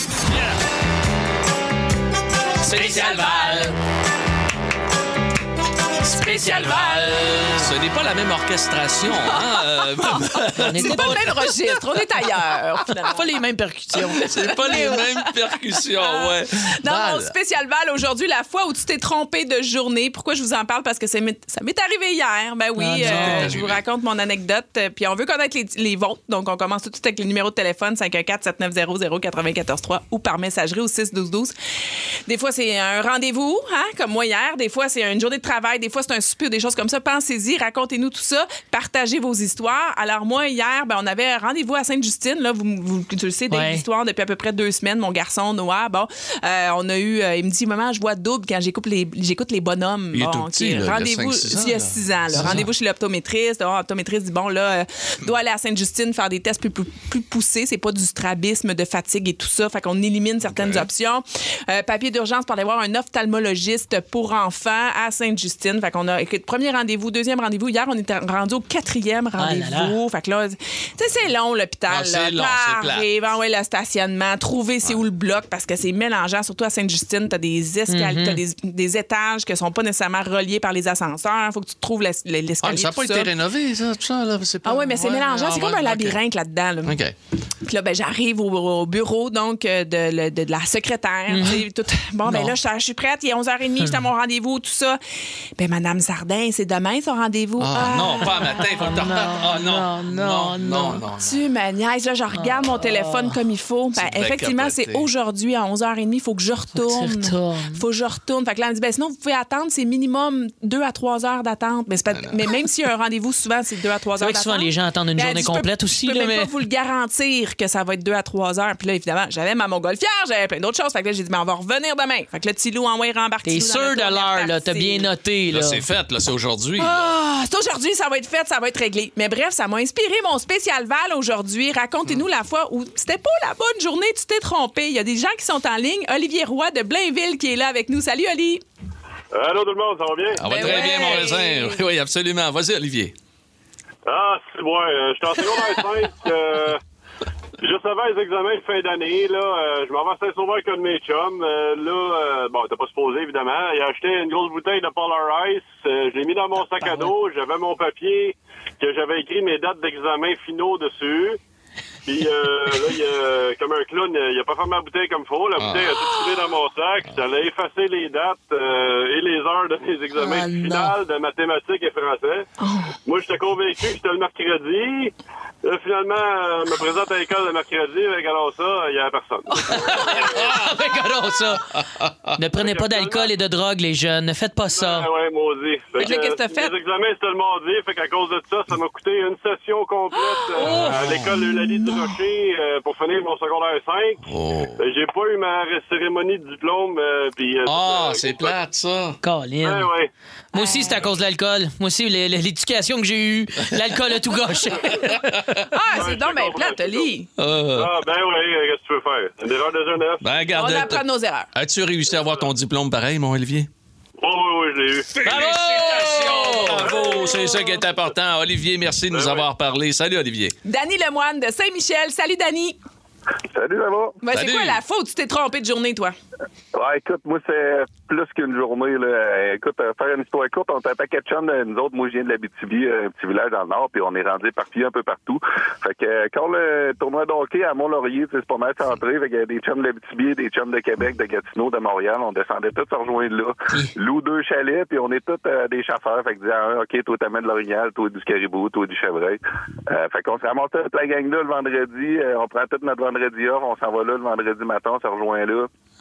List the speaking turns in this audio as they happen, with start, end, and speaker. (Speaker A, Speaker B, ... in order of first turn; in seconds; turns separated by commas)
Speaker A: 0.2-0.6, Speaker A: 2.6-3.6, Speaker B: 2.6-3.8, Speaker C: 6.0-7.4, Speaker B: 6.0-7.6, Speaker A: 7.5-11.3, Speaker C: 9.2-13.3, Speaker B: 10.6-11.5, Speaker B: 13.1-15.0, Speaker A: 13.9-17.3, Speaker C: 14.2-15.1, Speaker C: 16.0-31.5, Speaker B: 22.8-23.6, Speaker A: 23.0-23.8, Speaker C: 32.3-83.3, Speaker B: 43.5-43.8, Speaker A: 50.1-52.7, Speaker B: 52.4-52.6, Speaker A: 60.4-60.9, Speaker B: 69.4-70.0, Speaker A: 71.9-73.1, Speaker B: 77.9-78.4, Speaker A: 82.6-86.2, Speaker C: 84.7-87.0, Speaker A: 86.8-87.2, Speaker C: 87.6-95.0, Speaker B: 91.3-91.7, Speaker B: 92.3-92.5, Speaker C: 95.6-98.3, Speaker A: 97.6-101.4, Speaker B: 98.2-101.0, Speaker C: 101.2-125.1, Speaker B: 102.3-103.4, Speaker A: 104.0-105.1, Speaker B: 106.8-107.8, Speaker A: 112.1-112.6, Speaker B: 114.2-116.5, Speaker B: 123.5-125.8, Speaker A: 125.5-127.1, Speaker C: 126.8-138.6, Speaker D: 139.3-140.7, Speaker A: 140.3-143.1, Speaker C: 140.4-141.8, Speaker D: 144.1-146.8, Speaker D: 147.6-161.4, Speaker B: 156.8-157.1, Speaker D: 162.1-172.5, Speaker A: 165.6-166.1, Speaker B: 170.2-171.0, Speaker C: 172.6-172.9, Speaker D: 173.1-175.1, Speaker D: 175.6-180.3, Speaker B: 179.7-181.6, Speaker A: 180.2-180.7, Speaker A: 181.9-182.3, Speaker B: 182.4-185.1, Speaker D: 182.6-183.3, Speaker D: 184.7-194.2, Speaker C: 186.0-186.8, Speaker C: 190.2-190.8, Speaker B: 190.6-191.1, Speaker A: 190.7-191.3, Speaker A: 194.3-194.8, Speaker D: 194.8-198.6, Speaker A: 197.7-199.2, Speaker B: 199.2-199.9, Speaker D: 199.6-200.1, Speaker B: 200.5-205.3, Speaker C: 200.5-201.0, Speaker A: 205.1-205.7, Speaker C: 205.7-207.3, Speaker D: 205.9-207.1, Speaker A: 207.4-208.0, Speaker D: 207.8-210.5, Speaker A: 210.2-213.7, Speaker C: 210.5-211.5, Speaker D: 214.2-215.4, Speaker A: 215.2-220.6, Speaker B: 215.6-216.8, Speaker D: 216.7-217.6, Speaker D: 219.1-219.5, Speaker C: 220.7-222.8, Speaker E: 223.5-224.2, Speaker C: 224.2-226.2, Speaker A: 224.3-224.8, Speaker E: 226.7-255.7